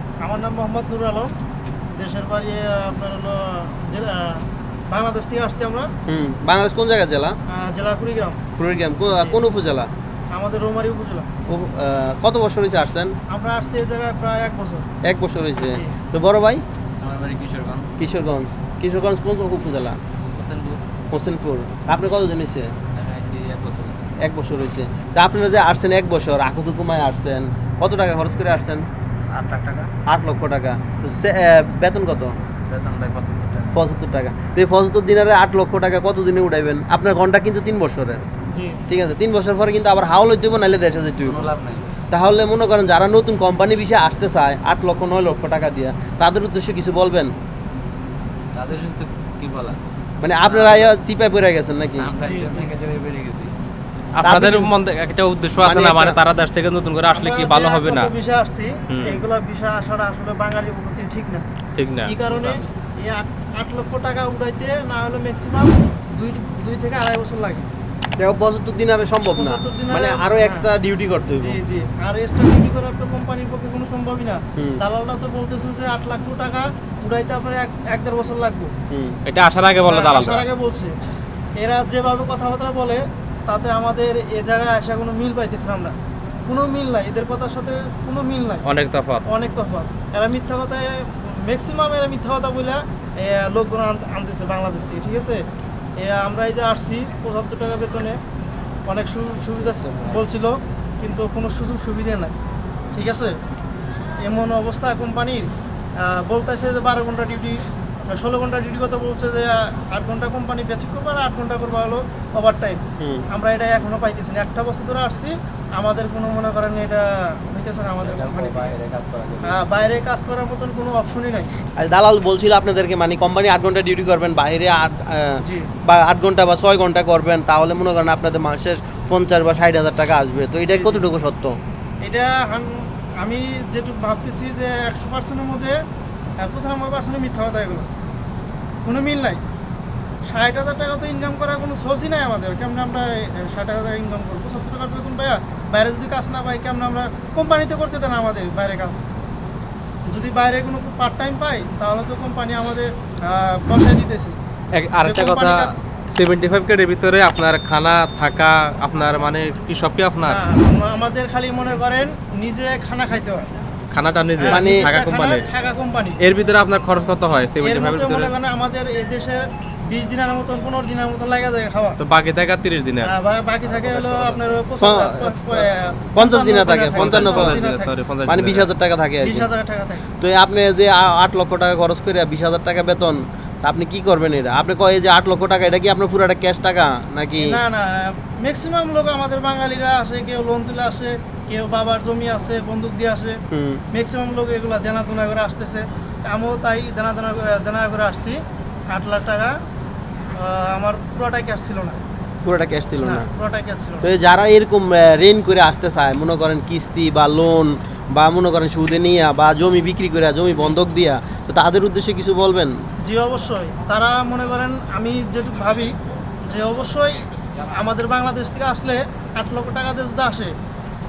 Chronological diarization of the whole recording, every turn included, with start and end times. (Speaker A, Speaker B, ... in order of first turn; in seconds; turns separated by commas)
Speaker A: 0.2-1.3, Speaker A: 2.0-5.9, Speaker B: 6.1-7.4, Speaker A: 7.5-8.4, Speaker B: 8.6-9.9, Speaker A: 9.1-9.4, Speaker A: 10.3-11.3, Speaker B: 11.5-13.1, Speaker A: 13.3-14.9, Speaker B: 15.0-16.6, Speaker C: 17.0-17.9, Speaker B: 18.0-20.0, Speaker C: 20.3-20.8, Speaker B: 21.1-22.7, Speaker C: 22.9-24.1, Speaker B: 24.2-28.9, Speaker C: 29.1-29.9, Speaker B: 30.1-32.4, Speaker C: 32.7-33.8, Speaker B: 33.7-38.3, Speaker A: 38.5-38.8, Speaker B: 38.9-41.5, Speaker C: 41.2-42.0, Speaker B: 42.1-47.3, Speaker C: 48.5-49.8, Speaker B: 50.2-52.1, Speaker C: 50.5-50.9, Speaker C: 51.9-53.5, Speaker A: 52.2-52.6, Speaker D: 54.1-58.1, Speaker B: 54.2-54.7, Speaker B: 55.6-56.2, Speaker A: 57.1-61.5, Speaker D: 58.9-59.2, Speaker D: 61.8-62.5, Speaker A: 62.0-67.7, Speaker B: 68.2-71.6, Speaker A: 69.3-70.7, Speaker A: 71.4-78.7, Speaker B: 74.6-74.8, Speaker B: 78.9-79.2, Speaker D: 79.3-80.5, Speaker A: 79.8-81.0, Speaker A: 81.6-86.0, Speaker A: 86.5-88.7, Speaker D: 88.6-89.2, Speaker A: 89.3-95.4, Speaker A: 96.0-98.2, Speaker A: 98.9-102.3, Speaker A: 102.9-103.3, Speaker A: 104.2-105.5, Speaker A: 106.0-118.8, Speaker B: 113.0-113.3, Speaker C: 118.0-119.8, Speaker A: 119.4-121.5, Speaker B: 121.8-131.6, Speaker A: 125.4-125.7, Speaker A: 130.7-131.0, Speaker A: 132.0-135.8, Speaker A: 136.4-137.9, Speaker A: 138.8-139.4, Speaker A: 140.3-149.0, Speaker A: 150.1-154.4, Speaker D: 154.7-160.4, Speaker A: 155.0-155.8, Speaker A: 160.3-163.5, Speaker D: 163.9-165.4, Speaker A: 164.4-166.2, Speaker B: 164.5-164.9, Speaker D: 166.2-168.3, Speaker A: 167.6-172.0, Speaker D: 172.0-173.1, Speaker A: 173.0-177.9, Speaker B: 174.8-175.4, Speaker B: 176.1-177.6, Speaker D: 176.9-178.7, Speaker B: 178.3-179.5, Speaker A: 179.2-180.1, Speaker B: 180.2-187.6, Speaker A: 187.4-193.4, Speaker B: 193.5-193.8, Speaker A: 193.9-198.4, Speaker A: 198.9-199.5, Speaker A: 200.4-202.0, Speaker B: 202.4-203.3, Speaker A: 203.0-204.1, Speaker B: 204.0-212.7, Speaker A: 213.0-215.9, Speaker A: 216.5-220.5